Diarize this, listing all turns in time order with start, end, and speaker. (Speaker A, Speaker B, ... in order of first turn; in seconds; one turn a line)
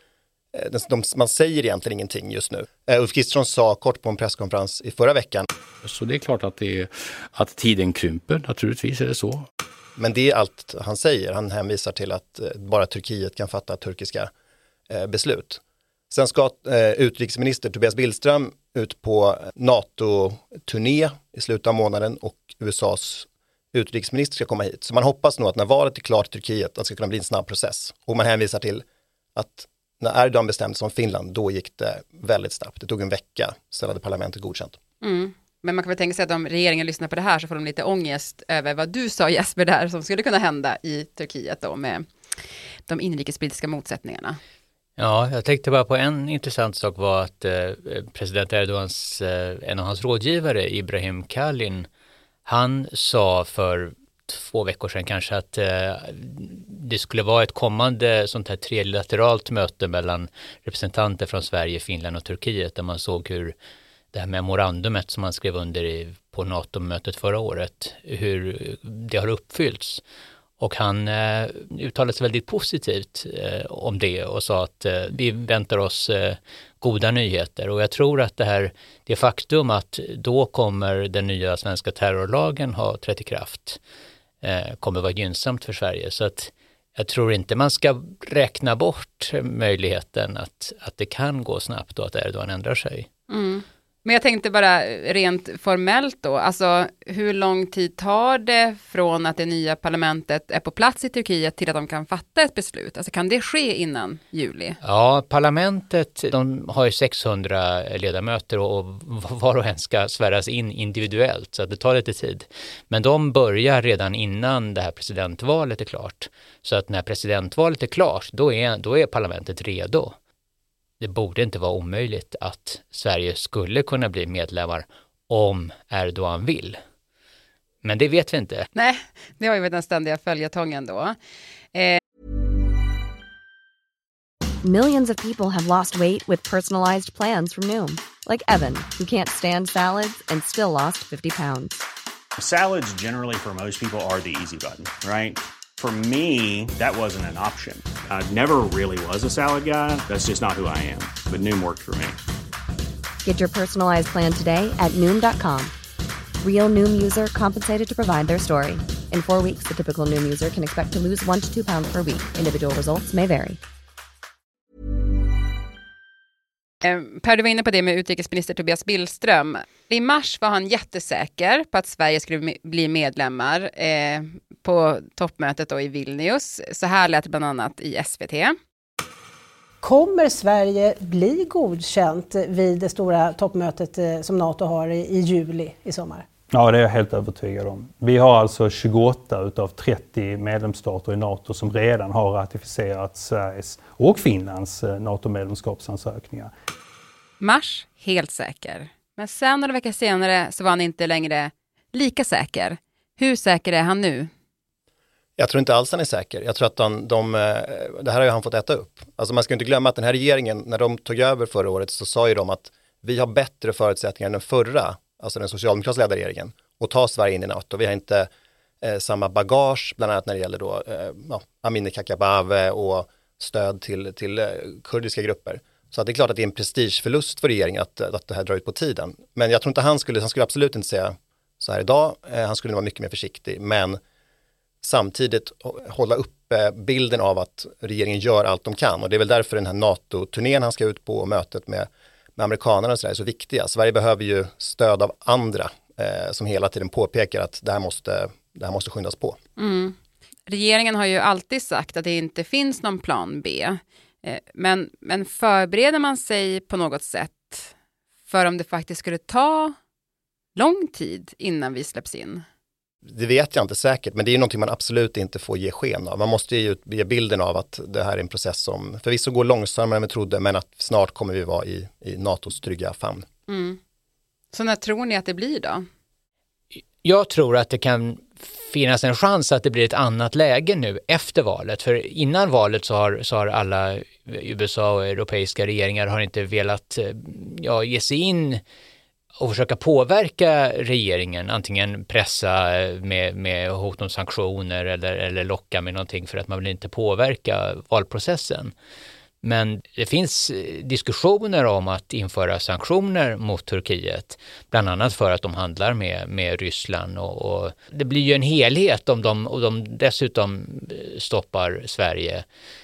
Speaker A: 0.5-5.5
Speaker B: 5.8-9.5
Speaker A: 10.0-14.3
Speaker A: 14.9-34.8
Speaker C: 35.0-42.1
Speaker C: 42.9-44.4
Speaker D: 45.0-51.9
Speaker D: 52.5-63.5
Speaker D: 64.1-70.0
Speaker D: 70.6-83.8
Speaker D: 84.4-93.1
Speaker C: 93.3-104.8
Speaker D: 104.8-120.1
Speaker D: 121.0-126.8
Speaker D: 127.8-128.7
Speaker C: 128.7-131.2
Speaker C: 131.7-132.0
Speaker E: 134.6-141.8
Speaker F: 142.4-152.2
Speaker E: 153.2-155.7
Speaker E: 156.4-163.6
Speaker C: 166.8-178.6
Speaker G: 179.8-186.3
Speaker H: 186.5-196.5
Speaker C: 197.4-204.3
Speaker A: 205.4-218.3
Speaker A: 218.8-234.0
Speaker A: 234.8-249.4
Speaker C: 249.6-250.0
Speaker C: 250.5-257.7
Speaker C: 258.3-259.8
Speaker C: 260.6-262.4
Speaker A: 263.1-273.2
Speaker C: 273.5-273.8
Speaker C: 274.5-275.9
Speaker D: 277.0-288.6
Speaker D: 289.4-298.7
Speaker D: 299.4-312.4